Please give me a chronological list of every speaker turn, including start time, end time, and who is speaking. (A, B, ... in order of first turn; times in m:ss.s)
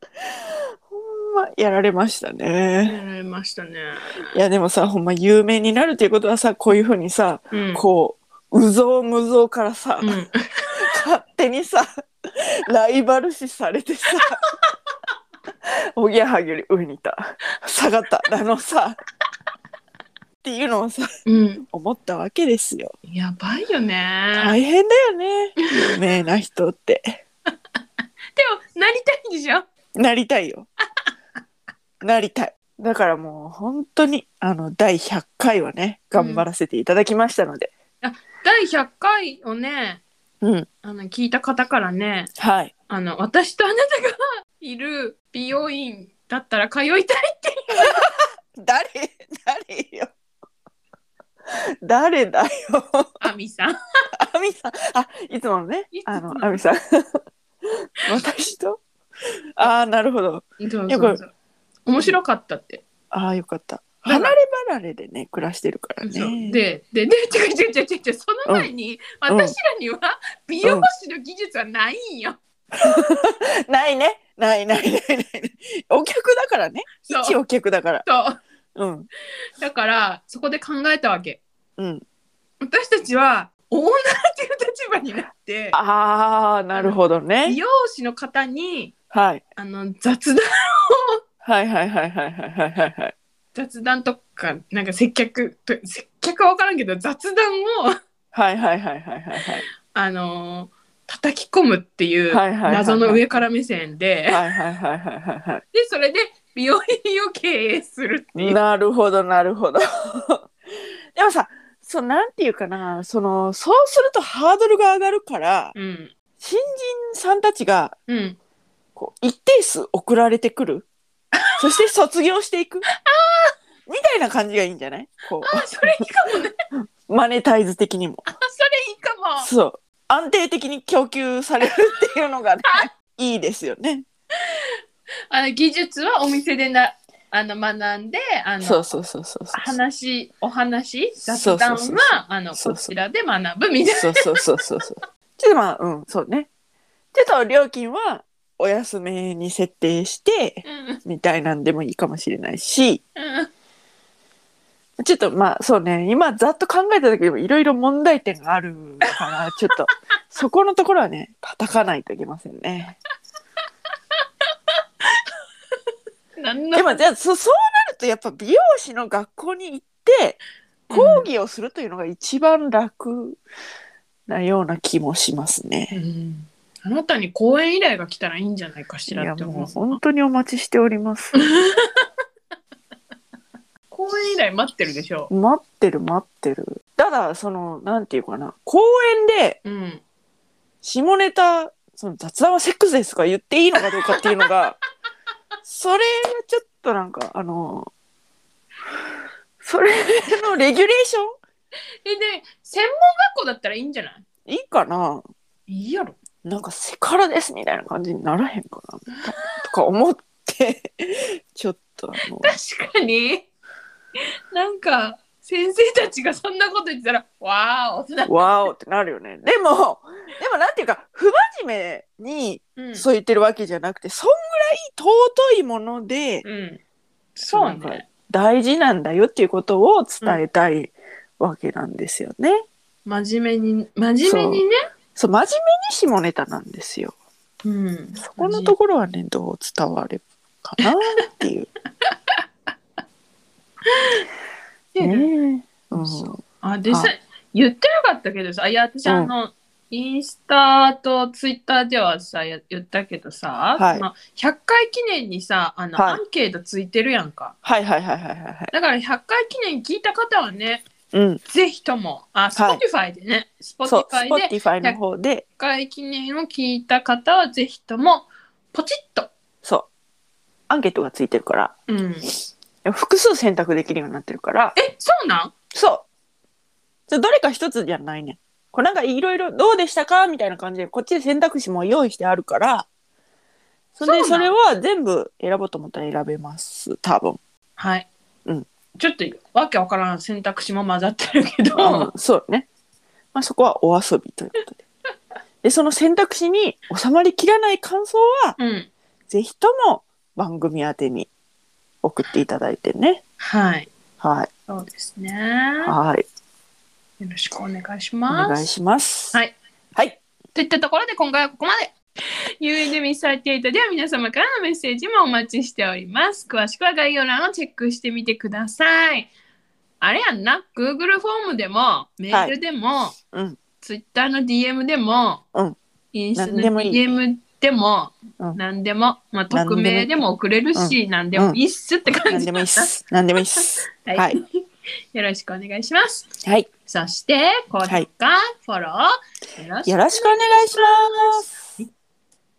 0:00.9-0:03.0 A
0:02.8-0:04.4 B
0:04.3-0:10.1 A
0:07.5-0:07.8 B
0:10.0-0:11.0 B
0:10.8-0:14.4 A
0:14.2-0:14.7 B
0:15.7-0:19.0 A
0:20.4-0:21.1 A
0:21.3-0:21.6 B
0:21.6-0:22.9 A
0:23.0-0:24.6 B
0:24.4-0:27.2 A
0:28.4-0:29.6 B
0:30.0-0:30.7 A
0:32.0-0:37.7 A
0:36.2-0:36.5 B
0:38.0-0:40.0 B
0:40.4-0:40.7 A
0:40.8-0:42.3 B
0:42.4-0:42.7 A
0:42.9-0:48.0 B
0:47.8-0:50.1 A
0:51.8-0:53.1 A
0:53.2-0:53.8 B
0:54.2-0:57.2 A
0:55.9-0:56.6 B
0:58.1-0:58.8 A
0:59.6-1:01.2 A
1:00.6-1:01.3 B
1:01.9-1:02.8 B
1:03.1-1:06.6 A
1:04.0-1:04.4 B
1:06.0-1:13.2 B
1:08.5-1:08.7 A
1:09.3-1:09.5 A
1:12.8-1:18.0 A
1:17.1-1:17.4 B
1:18.0-1:18.4 B
1:18.8-1:19.1 A
1:19.6-1:21.4 B
1:21.8-1:22.0 A
1:22.6-1:25.8 B
1:25.7-1:27.6 A
1:26.7-1:28.9 B
1:29.1-1:29.4 A
1:29.6-1:31.1 B
1:31.4-1:33.1 A
1:33.6-1:38.0 B
1:38.3-1:39.6 A
1:39.9-1:44.4 B
1:42.3-1:43.4 A
1:44.3-1:45.6 A
1:45.7-1:48.6 B
1:48.4-1:50.5 A
1:51.2-1:55.8 A
1:55.8-1:56.1 B
1:56.4-1:58.0 A
1:58.1-1:58.4 B
1:59.0-2:00.9 A
2:01.4-2:01.6 B
2:01.6-2:02.8 A
2:02.9-2:03.5 B
2:03.9-2:06.0 A
2:05.4-2:06.5 B
2:06.7-2:08.2 A
2:08.3-2:09.5 B
2:09.4-2:14.0 A
2:15.3-2:18.8 B
2:18.6-2:19.8 A
2:19.5-2:24.4 B
2:21.3-2:22.9 A
2:23.9-2:26.5 A
2:27.1-2:33.0 A
2:30.6-2:31.0 B
2:33.2-2:33.5 B
2:35.0-2:43.0 A
2:45.0-2:45.3 B
2:46.4-2:47.0 B
2:46.7-2:53.4 A
2:50.9-2:51.3 B
2:54.3-2:56.0 A
2:55.9-3:00.0 B
2:59.1-3:01.4 A
3:01.3-3:02.1 B
3:03.9-3:05.3 B
3:05.3-3:09.6 A
3:09.6-3:10.0 B
3:10.8-3:14.8 A
3:13.8-3:14.5 B
3:15.7-3:17.9 A
3:19.6-3:21.4 A
3:22.0-3:24.2 B
3:24.5-3:25.2 A
3:25.7-3:26.2 B
3:26.4-3:32.5 A
3:29.1-3:29.7 B
3:32.4-3:33.5 B
3:34.5-3:38.7 B
3:38.3-3:46.4 A
3:42.8-3:43.1 B
3:46.4-3:46.8 B
3:47.4-3:48.1 B
3:47.5-3:52.6 A
3:53.1-3:54.8 B
3:54.2-3:54.6 A
3:55.2-3:57.2 A
3:57.6-3:58.8 B
3:58.2-4:01.7 A
4:04.9-4:05.3 B
4:05.0-4:07.1 A
4:05.9-4:17.6 B
4:09.1-4:09.3 A
4:13.8-4:14.1 A
4:16.0-4:16.2 A
4:17.6-4:18.7 A
4:18.7-4:20.8 B
4:21.1-4:21.4 A
4:21.5-4:25.0 B
4:22.6-4:22.8 A
4:23.8-4:25.4 A
4:25.6-4:29.3 B
4:29.6-4:29.9 A
4:30.7-4:31.8 A
4:31.9-4:32.3 B
4:32.8-4:34.8 A
4:34.8-4:35.5 B
4:35.7-4:36.1 A
4:37.1-4:42.9 A
4:44.0-4:47.4 A
4:44.0-4:44.5 B
4:47.8-4:48.1 B
4:49.0-4:52.1 B
4:51.8-4:52.7 A
4:53.3-4:54.8 A
4:55.6-4:58.6 A
4:58.6-4:58.9 B
4:59.3-5:01.3 A
5:02.0-5:03.2 A
5:03.4-5:03.9 B
5:04.2-5:04.5 A
5:04.7-5:06.0 B
5:05.8-5:06.3 A
5:07.2-5:08.7 B
5:08.3-5:09.4 A
5:10.6-5:12.0 B
5:12.6-5:19.3 B
5:20.0-5:23.2 B
5:23.3-5:23.6 A
5:23.8-5:25.4 B
5:26.1-5:32.9 B
5:26.4-5:27.1 A
5:29.5-5:30.1 A
5:30.7-5:31.6 A
5:32.3-5:34.4 A
5:33.6-5:34.4 B
5:35.1-5:36.3 B
5:36.9-5:41.9 B
5:39.9-5:41.7 A